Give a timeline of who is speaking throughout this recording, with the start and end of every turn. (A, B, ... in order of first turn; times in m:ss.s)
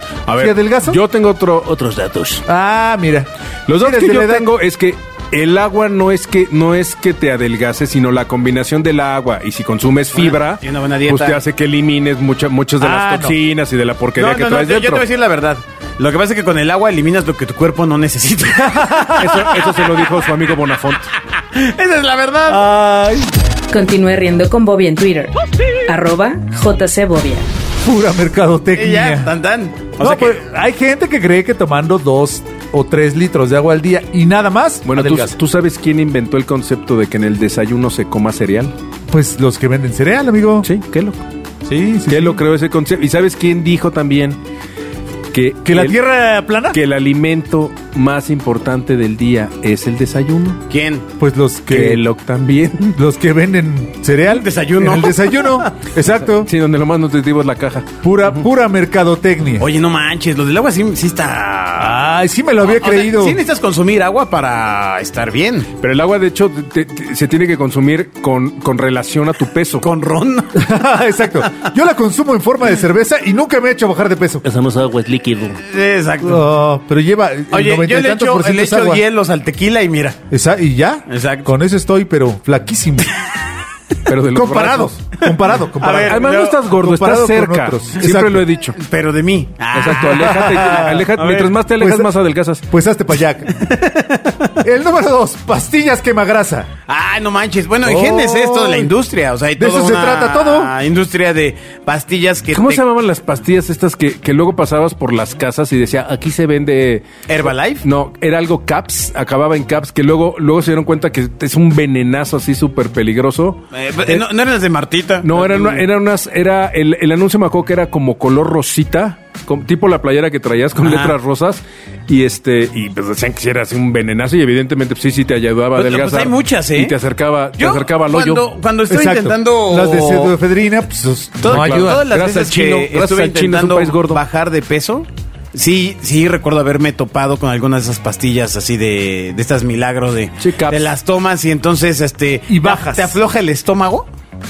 0:00.2-0:02.4 A
0:00.4-0:01.0 B
0:02.4-0:04.5 B
0:03.7-0:15.0 A
0:10.1-0:11.4 C
0:12.8-0:13.3 B
0:14.2-0:20.1 C
0:18.6-0:19.5 B
0:19.2-0:21.1 A
0:21.3-0:22.6 C
0:22.5-0:23.3 B
0:23.7-0:25.3 D
0:25.8-0:27.5 D
0:27.8-0:29.3 B
0:28.8-0:30.4 C
0:30.0-0:35.4 B
0:34.8-0:38.7 A
0:39.1-0:40.7 B
0:40.6-0:41.2 A
0:41.6-0:42.4 B
0:42.1-0:44.4 A
0:45.3-0:46.0 A
0:45.6-0:46.8 B
0:46.7-0:50.6 A
0:50.7-0:51.0 C
0:51.2-0:52.0 B
0:51.7-0:53.0 A
0:53.0-0:56.5 B
0:54.2-0:55.7 C
0:56.2-0:58.4 A
0:58.0-0:59.7 B
0:59.6-1:02.0 C
1:01.8-1:03.4 B
1:02.6-1:05.7 C
1:05.8-1:09.9 A
1:09.8-1:10.7 C
1:10.5-1:14.4 B
1:14.4-1:15.6 A
1:15.6-1:16.4 C
1:16.2-1:19.0 B
1:17.5-1:20.2 C
1:20.3-1:23.1 B
1:21.1-1:21.5 C
1:24.0-1:25.0 A
1:24.3-1:28.6 B
1:25.8-1:26.6 C
1:26.0-1:28.8 A
1:28.7-1:31.6 C
1:29.7-1:32.6 A
1:30.1-1:31.1 B
1:31.7-1:32.1 B
1:32.7-1:33.5 B
1:33.6-1:34.5 C
1:34.6-1:36.7 B
1:36.9-1:42.8 C
1:37.8-1:38.9 B
1:39.6-1:40.7 B
1:42.5-1:47.0 A
1:47.3-1:47.8 C
1:47.8-1:54.2 A
1:53.7-1:55.9 C
1:55.2-2:08.5 A
2:00.8-2:01.1 C
2:05.7-2:07.0 C
2:07.6-2:10.3 C
2:08.9-2:12.1 B
2:11.4-2:24.1 C
2:11.4-2:14.2 A
2:20.4-2:20.9 A
2:22.5-2:23.2 B